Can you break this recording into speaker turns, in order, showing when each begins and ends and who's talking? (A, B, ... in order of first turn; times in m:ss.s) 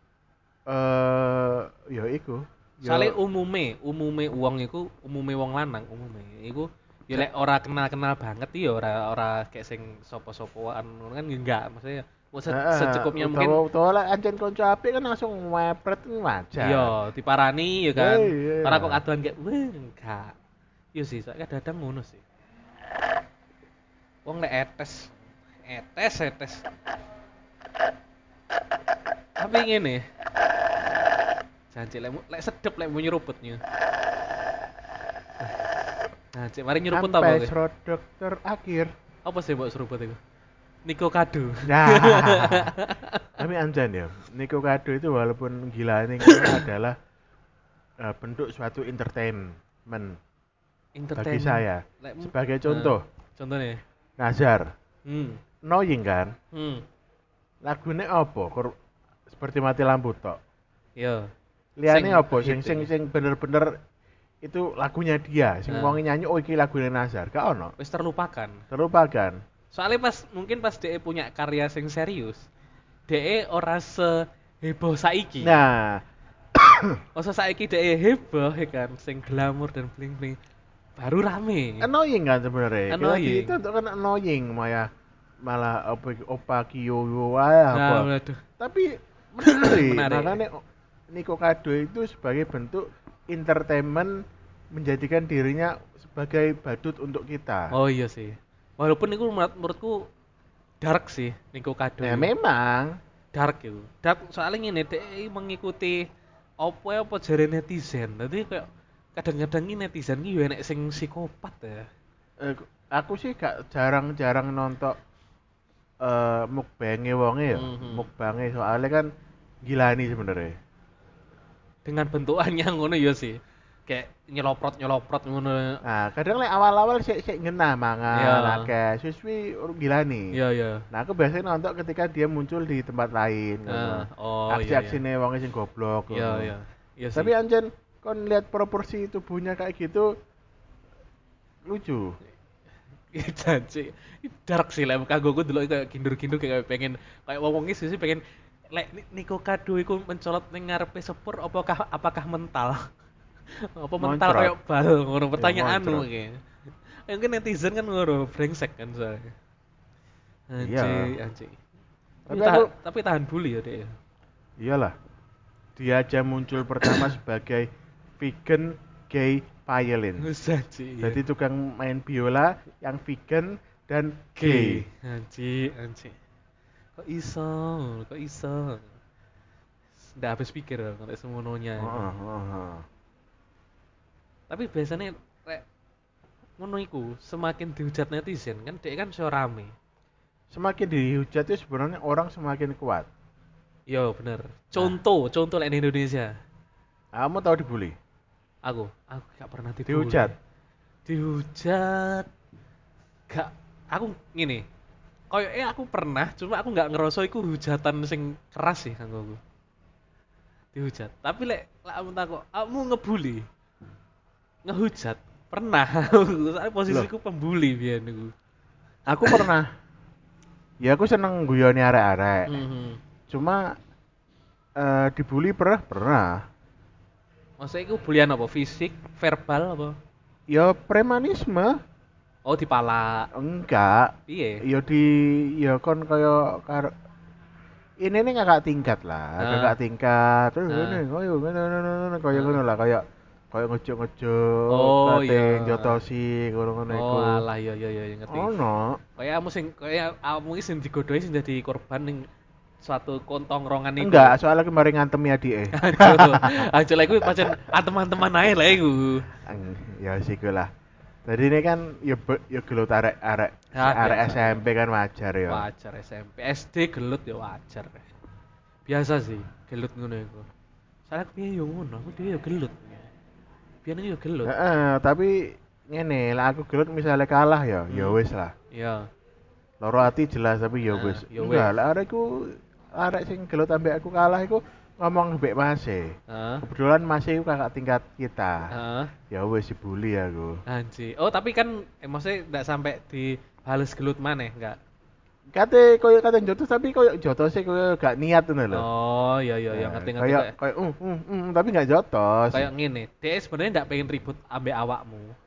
0:00.7-0:03.2 A
0:02.8-0:13.6 B
0:12.5-0:16.9 A
0:16.6-0:20.3 B
0:18.0-0:19.0 A
0:20.9-0:22.2 B
0:24.2-0:25.1 B
0:25.6-0:26.6 B
0:29.4-0:30.0 B
0:31.7-0:33.6 B
0:36.3-0:37.5 B
0:36.9-0:38.9 A
0:39.2-0:40.2 B
0:40.8-0:43.4 B
0:41.6-0:42.7 A
0:43.4-0:47.0 A
0:46.2-0:46.6 B
0:48.0-0:50.2 A
0:51.0-0:53.8 B
0:51.2-0:53.0 A
0:54.2-0:54.7 A
0:55.1-0:55.4 B
0:55.6-0:56.3 A
0:56.5-0:56.8 B
0:57.6-0:58.7 A
0:59.3-1:00.4 A
1:01.0-1:01.3 B
1:01.8-1:03.8 A
1:01.9-1:02.9 B
1:04.4-1:07.7 A
1:05.7-1:06.0 B
1:07.8-1:08.6 B
1:08.7-1:09.4 A
1:09.7-1:12.4 B
1:13.1-1:15.6 B
1:15.4-1:16.0 A
1:16.5-1:17.0 A
1:17.1-1:20.4 B
1:21.0-1:21.9 B
1:21.8-1:24.9 A
1:22.9-1:23.6 B
1:25.4-1:28.1 A
1:27.7-1:28.4 B
1:28.6-1:34.1 A
1:29.4-1:30.4 B
1:34.7-1:37.7 A
1:37.7-1:40.0 B
1:40.8-1:42.3 B
1:42.0-1:43.0 A
1:43.3-1:46.0 B
1:46.6-1:51.8 B
1:52.4-1:55.0 A
1:56.0-1:59.1 A
1:57.5-1:58.0 B
1:59.7-2:00.6 A
2:01.8-2:05.8 B
2:05.8-2:10.3 A
2:08.1-2:08.7 B
2:10.3-2:10.8 B
2:10.9-2:16.5 A
2:13.7-2:15.0 B
2:16.1-2:17.3 B
2:17.1-2:20.1 A
2:21.7-2:22.1 A
2:23.1-2:32.9 B
2:33.8-2:36.4 B
2:34.0-2:34.5 A
2:35.4-2:36.1 A
2:37.1-2:39.3 B
2:40.5-2:41.6 B
2:40.6-2:41.1 A
2:42.3-2:43.9 B
2:42.3-2:42.7 A
2:44.6-2:44.9 A
2:45.8-2:47.7 A
2:48.2-2:50.3 A
2:50.2-2:51.2 B
2:51.0-2:54.8 A
2:54.4-2:56.2 B
2:57.0-2:58.9 B
3:00.2-3:02.1 B
3:01.8-3:02.8 A
3:04.5-3:05.6 B
3:06.6-3:09.7 B
3:10.5-3:13.1 A
3:13.9-3:16.3 B
3:17.2-3:18.0 A
3:18.6-3:20.3 B
3:19.9-3:20.3 A
3:21.0-3:22.3 B
3:23.3-3:24.6 B
3:25.3-3:29.4 B
3:30.7-3:33.4 B
3:34.6-3:38.3 B
3:39.1-3:39.7 A
3:40.8-3:42.5 A
3:42.5-3:43.0 B
3:43.3-3:43.7 A
3:44.8-3:46.4 A
3:47.6-3:50.0 B
3:50.5-3:51.8 A
3:52.4-3:53.3 B
3:53.3-3:54.1 A
3:54.3-3:54.6 B
3:54.6-3:56.9 A
3:58.0-4:07.4 A
3:59.4-3:59.7 B
4:00.7-4:01.0 B
4:02.3-4:02.6 B
4:04.7-4:06.0 B
4:06.9-4:08.5 B
4:08.3-4:09.0 A
4:09.2-4:12.2 B
4:12.8-4:14.4 B
4:14.0-4:16.7 A
4:15.7-4:19.3 B
4:17.2-4:17.8 A
4:19.4-4:20.7 A
4:21.2-4:25.6 A
4:23.7-4:24.6 B
4:25.5-4:28.1 B
4:28.9-4:30.5 B
4:31.1-4:33.1 B
4:33.8-4:34.5 B
4:34.4-4:35.3 A
4:35.9-4:38.5 A
4:37.9-4:38.2 B
4:38.7-4:39.1 B
4:39.8-4:48.7 A
4:40.9-4:41.7 B
4:46.3-4:46.6 B
4:48.7-4:49.1 B
4:49.3-4:50.6 A
4:50.7-4:54.8 B
4:55.5-4:58.8 A
4:58.7-5:00.5 B
4:59.7-5:02.7 A
5:02.5-5:05.3 B